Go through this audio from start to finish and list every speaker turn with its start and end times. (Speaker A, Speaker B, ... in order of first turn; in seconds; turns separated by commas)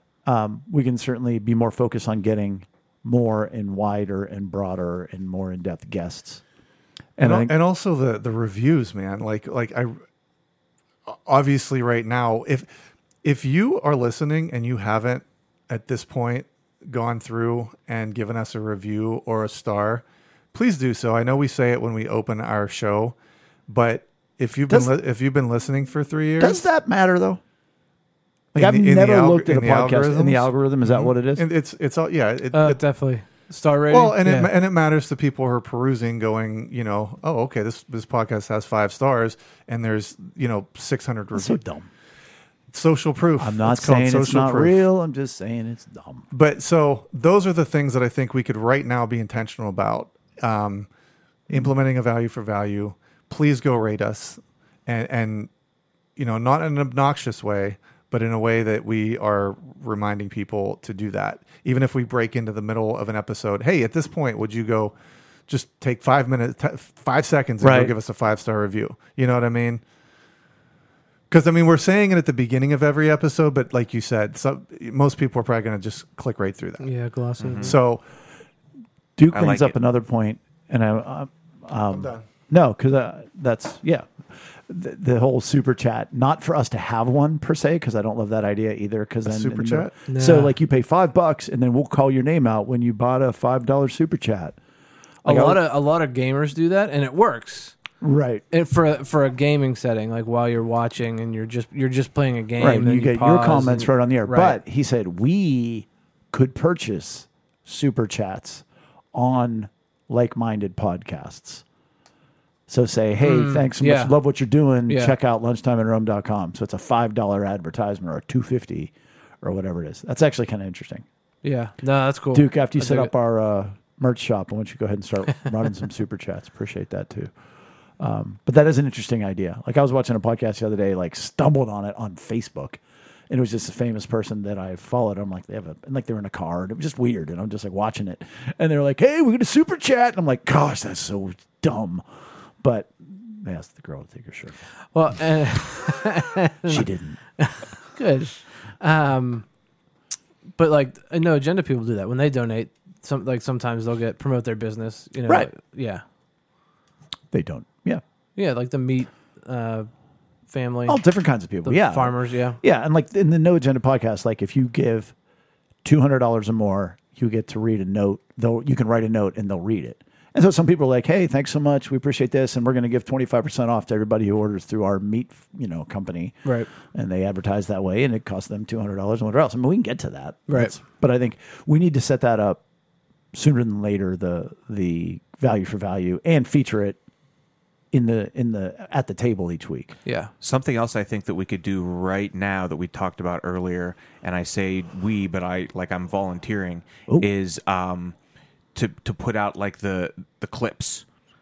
Speaker A: 0.2-6.4, Speaker A: 7.2-7.5, Speaker B: 7.2-10.0, Speaker B: 11.1-12.7, Speaker B: 13.2-23.1, Speaker B: 23.7-26.7, Speaker A: 24.7-24.9, Speaker A: 26.4-27.4, Speaker B: 28.5-32.8, Speaker A: 28.5-31.4, Speaker C: 32.5-34.5, Speaker B: 33.9-41.6, Speaker A: 41.3-41.9, Speaker B: 42.7-44.8, Speaker A: 43.4-46.2, Speaker B: 46.3-50.9, Speaker B: 51.5-55.5, Speaker B: 56.2-64.9, Speaker B: 65.5-69.8, Speaker A: 67.6-67.9, Speaker B: 71.3-76.9, Speaker C: 76.8-77.8, Speaker D: 77.4-77.8, Speaker B: 77.6-78.0, Speaker A: 79.2-94.6, Speaker D: 79.3-79.7, Speaker B: 81.9-82.2, Speaker B: 89.2-89.9, Speaker C: 90.1-90.5, Speaker A: 95.2-95.6, Speaker C: 95.2-97.8, Speaker A: 98.0-98.4, Speaker C: 98.5-104.6, Speaker A: 102.6-111.6, Speaker A: 112.7-121.0, Speaker C: 113.2-114.1, Speaker C: 114.9-115.1, Speaker C: 121.4-123.1, Speaker A: 122.3-127.3, Speaker A: 128.0-142.0, Speaker A: 142.6-144.6, Speaker C: 144.9-146.9, Speaker A: 146.6-147.2, Speaker C: 147.4-149.4, Speaker C: 150.6-156.0, Speaker A: 157.3-158.0, Speaker C: 158.4-159.9, Speaker C: 160.5-161.0, Speaker A: 160.9-165.1, Speaker C: 161.6-162.6, Speaker A: 165.8-182.6, Speaker C: 180.5-180.8, Speaker A: 183.3-187.0, Speaker A: 187.9-189.9, Speaker C: 190.1-190.3, Speaker D: 190.4-198.1, Speaker D: 198.7-201.0